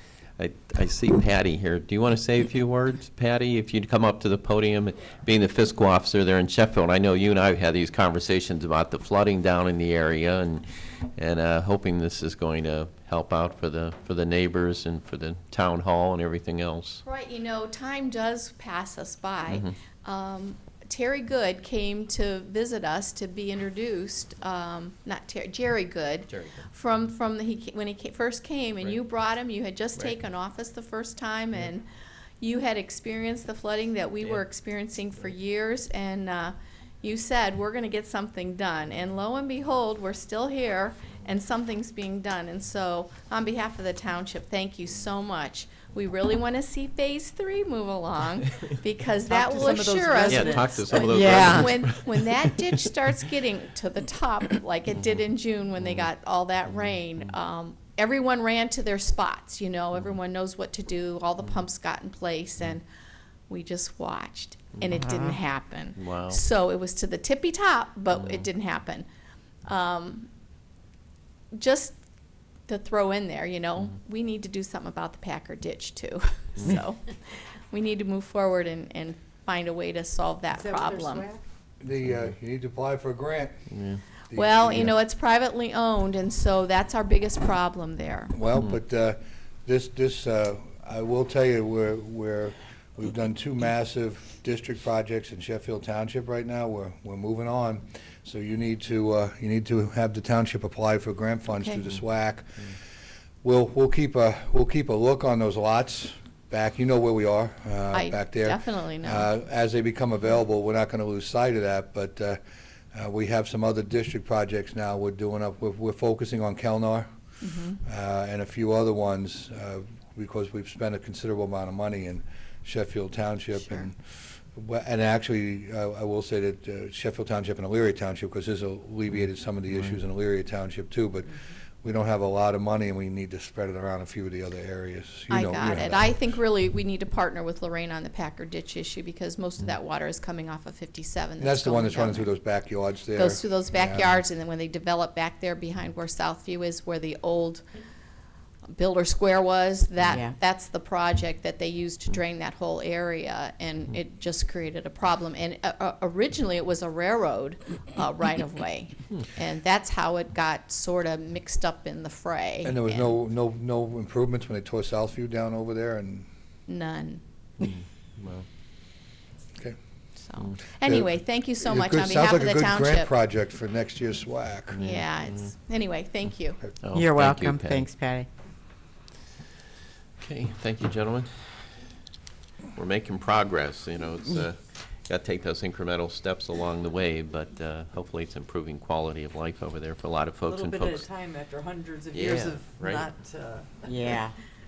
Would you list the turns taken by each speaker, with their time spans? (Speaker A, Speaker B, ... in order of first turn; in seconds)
Speaker A: 0.4-17.0, 19.5-19.7, 26.3-26.6, 50.3-52.8, 55.8-56.1, 56.8-57.3, 65.9-66.4, 68.1-68.5, 76.6-76.8, 83.7-84.0, 167.6-168.4, 174.7-175.5, 176.8-177.9, 180.2-181.5, 182.8-191.1, 192.1-193.1
Speaker B: 17.0-31.9, 32.4-62.8, 63.5-69.0, 69.7-70.3, 71.5-72.0, 72.7-81.2, 84.3-88.3, 101.5-101.8, 107.9-109.3, 117.4-117.8, 123.5-123.9, 135.3-142.3, 143.1-147.6, 148.7-163.1, 166.7-167.2, 170.2-173.1, 174.8-176.7
Speaker C: 49.3-51.4, 80.5-81.4, 190.4-194.3
Speaker D: 51.1-51.6, 65.0-65.4, 176.9-178.3, 193.8-194.3
Speaker E: 81.8-83.6, 84.3-84.9, 88.3-102.7, 103.4-112.4, 112.9-117.1, 117.8-136.3, 141.4-144.1, 162.6-166.3, 170.8-174.8